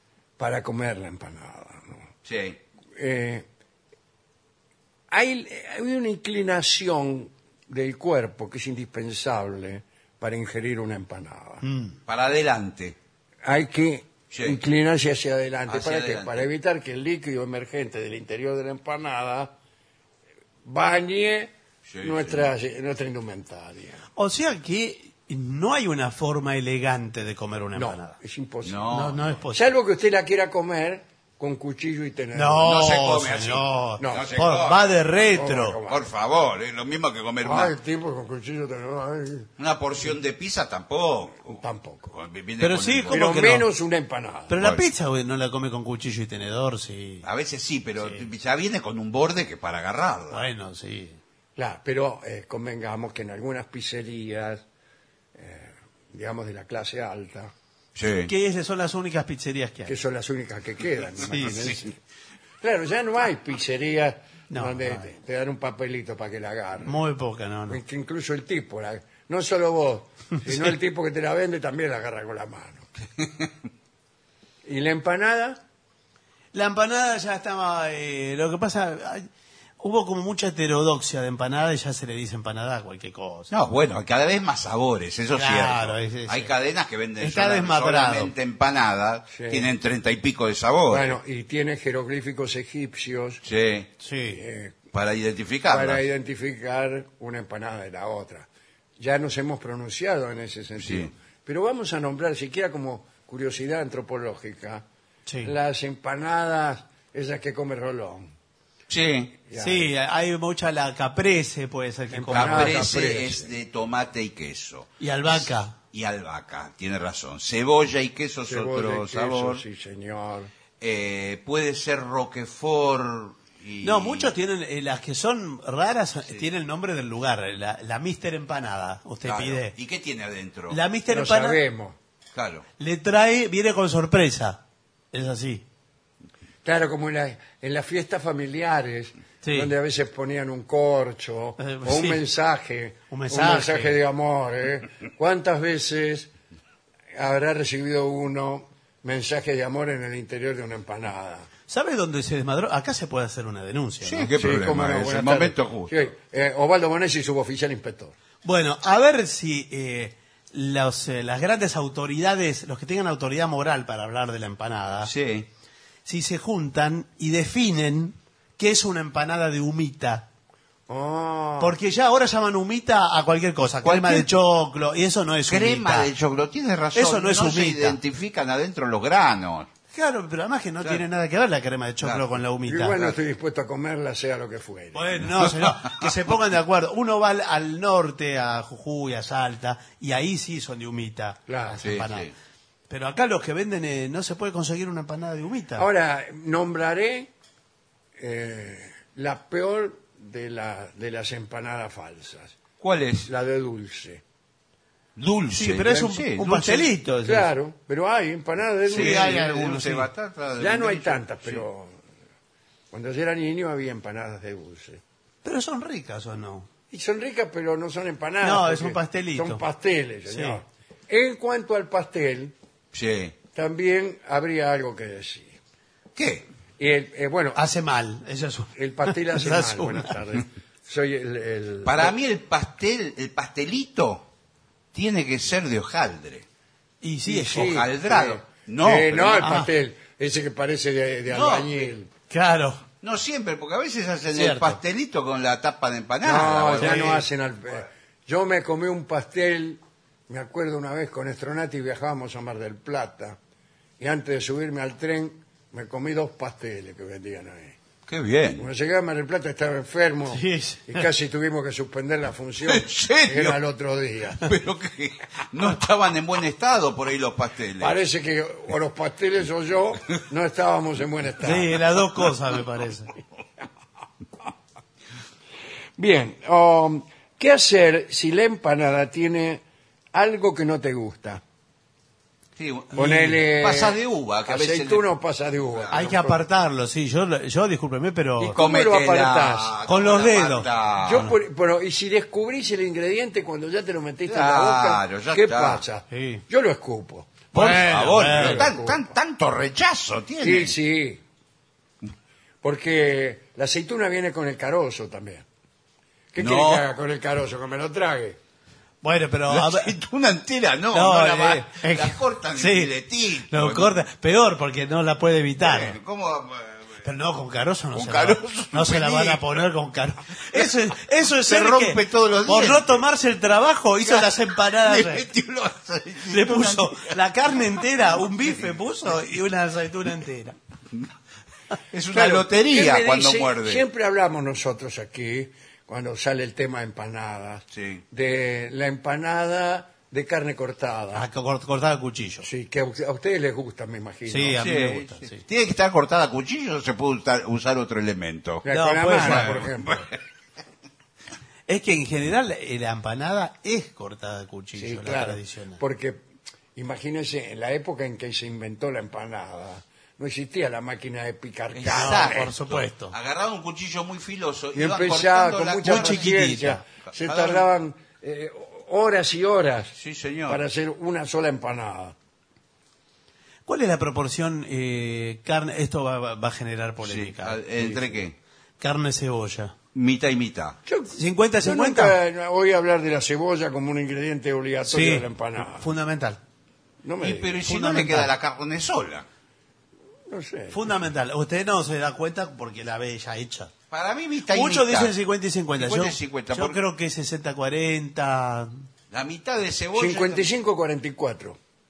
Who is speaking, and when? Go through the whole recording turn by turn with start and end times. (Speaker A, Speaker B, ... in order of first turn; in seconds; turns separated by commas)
Speaker A: 0.4-2.0, Speaker B: 2.2-2.6, Speaker A: 3.0-3.5, Speaker A: 5.1-11.6, Speaker C: 11.6-12.0, Speaker B: 12.1-13.0, Speaker A: 13.4-19.6, Speaker B: 14.3-14.6, Speaker B: 15.7-16.5, Speaker A: 20.6-24.0, Speaker B: 21.9-22.5, Speaker C: 24.2-28.2, Speaker A: 27.8-29.0, Speaker B: 28.6-29.2, Speaker C: 28.9-29.6, Speaker A: 29.5-32.7, Speaker C: 32.3-35.8, Speaker B: 32.6-35.0, Speaker A: 34.0-34.3, Speaker A: 35.2-36.0, Speaker B: 35.9-37.7, Speaker A: 37.4-39.5, Speaker B: 39.6-43.2, Speaker A: 41.5-42.1, Speaker C: 42.6-43.7, Speaker A: 43.1-44.6, Speaker C: 44.5-47.2, Speaker B: 44.6-44.8, Speaker B: 47.2-50.5, Speaker C: 48.0-48.3, Speaker C: 50.3-51.2, Speaker A: 51.6-54.6, Speaker A: 55.4-57.5, Speaker B: 58.0-58.3, Speaker C: 58.3-60.0, Speaker A: 59.9-62.0, Speaker C: 61.3-61.8, Speaker A: 62.6-67.0, Speaker C: 64.5-65.1, Speaker C: 66.8-67.8, Speaker A: 67.7-72.9, Speaker A: 74.7-75.6, Speaker C: 76.5-79.3, Speaker C: 79.8-83.5, Speaker B: 83.5-91.2, Speaker C: 85.3-86.5, Speaker C: 87.2-88.3, Speaker A: 89.3-89.7, Speaker A: 90.9-93.4, Speaker B: 93.4-93.9, Speaker C: 94.0-94.4, Speaker A: 94.3-94.8, Speaker B: 94.9-96.0, Speaker A: 95.7-104.8, Speaker B: 100.8-101.1, Speaker C: 105.3-105.5, Speaker A: 105.4-108.3, Speaker B: 108.9-109.3, Speaker A: 109.5-109.9, Speaker C: 109.5-112.9, Speaker A: 112.1-113.5, Speaker B: 112.3-119.6, Speaker C: 115.0-115.8, Speaker A: 118.4-120.5, Speaker B: 120.8-124.3, Speaker C: 123.8-129.7, Speaker B: 129.2-130.8, Speaker C: 130.7-131.6, Speaker A: 131.1-132.0, Speaker B: 132.3-132.6, Speaker C: 132.8-134.6, Speaker C: 135.1-135.7, Speaker A: 136.6-146.3, Speaker C: 139.4-139.7, Speaker C: 141.6-142.2, Speaker C: 143.1-144.0, Speaker A: 147.1-151.5, Speaker C: 151.7-154.3, Speaker B: 154.0-155.9, Speaker A: 154.3-158.1, Speaker C: 158.4-165.1, Speaker B: 165.1-165.5, Speaker C: 166.1-170.3, Speaker A: 170.9-171.8, Speaker C: 171.6-176.1, Speaker B: 173.8-174.3, Speaker B: 175.5-179.7, Speaker C: 176.9-178.0, Speaker C: 179.9-183.1, Speaker B: 182.0-182.3, Speaker A: 182.7-185.2, Speaker C: 184.9-192.3, Speaker B: 185.4-185.8, Speaker A: 191.5-191.8, Speaker B: 191.8-192.3, Speaker C: 192.9-195.9, Speaker A: 195.8-197.3, Speaker A: 198.2-202.5, Speaker B: 202.8-203.3, Speaker A: 203.3-204.2, Speaker B: 205.2-206.9, Speaker C: 205.5-207.5, Speaker A: 207.2-209.4, Speaker C: 208.9-210.1, Speaker B: 208.9-211.6, Speaker A: 210.6-212.0, Speaker A: 212.9-215.0, Speaker C: 215.4-216.7, Speaker A: 216.9-222.6, Speaker C: 218.4-219.6, Speaker C: 220.3-220.6, Speaker B: 222.9-223.3, Speaker A: 223.5-225.6, Speaker B: 226.2-226.5, Speaker A: 226.8-227.6, Speaker C: 227.6-230.1, Speaker A: 228.8-232.2, Speaker B: 231.8-234.3, Speaker B: 234.9-236.4, Speaker C: 237.0-237.8, Speaker A: 237.3-242.1, Speaker B: 237.4-239.5, Speaker C: 239.4-239.7, Speaker B: 241.3-241.8, Speaker C: 242.3-242.8, Speaker B: 243.0-247.2, Speaker C: 244.3-244.8, Speaker A: 246.2-253.4, Speaker C: 246.8-247.3, Speaker A: 254.0-257.8, Speaker B: 258.1-258.7, Speaker A: 258.6-264.5, Speaker C: 260.3-261.0, Speaker B: 262.6-263.6, Speaker B: 264.4-268.0, Speaker A: 267.8-271.8, Speaker C: 271.4-273.1, Speaker A: 276.0-281.4, Speaker B: 282.6-285.1, Speaker A: 282.9-286.5, Speaker C: 283.0-283.4, Speaker C: 285.9-288.6, Speaker A: 288.4-289.8, Speaker B: 288.5-291.3, Speaker C: 289.9-291.4, Speaker A: 291.0-299.1, Speaker B: 294.3-295.8, Speaker C: 296.1-296.4, Speaker B: 297.5-300.7, Speaker C: 297.5-298.7, Speaker A: 300.4-301.2, Speaker A: 302.6-305.4, Speaker A: 306.3-308.4, Speaker B: 306.4-306.9, Speaker C: 309.0-309.9, Speaker B: 309.5-314.0, Speaker C: 310.9-316.0, Speaker B: 315.6-317.0, Speaker C: 317.0-325.3, Speaker B: 317.9-319.6, Speaker B: 321.4-323.0, Speaker B: 324.0-327.2, Speaker C: 326.3-330.6, Speaker B: 331.9-333.9, Speaker A: 332.1-341.3, Speaker B: 337.7-338.0, Speaker C: 341.1-342.5, Speaker A: 342.4-344.7, Speaker C: 344.3-345.4, Speaker B: 344.5-348.6, Speaker A: 348.6-350.1, Speaker C: 348.7-349.6, Speaker B: 349.2-350.1, Speaker C: 351.7-355.8, Speaker A: 354.8-356.2, Speaker A: 356.8-362.6, Speaker B: 361.7-366.4, Speaker C: 361.9-363.1, Speaker A: 364.7-369.9, Speaker C: 365.8-366.8, Speaker B: 367.1-367.7, Speaker B: 369.9-370.6, Speaker A: 370.5-372.1, Speaker C: 373.7-378.3, Speaker B: 377.0-378.4, Speaker C: 378.8-379.8, Speaker B: 379.9-380.8, Speaker A: 380.9-385.9, Speaker C: 381.1-382.2, Speaker C: 384.9-386.4, Speaker A: 387.0-387.6, Speaker B: 387.2-389.3, Speaker C: 387.6-388.3, Speaker A: 390.3-390.8, Speaker C: 390.7-393.7, Speaker B: 393.9-395.1, Speaker C: 394.5-398.7, Speaker B: 395.8-396.8, Speaker B: 399.1-400.5, Speaker A: 399.9-401.6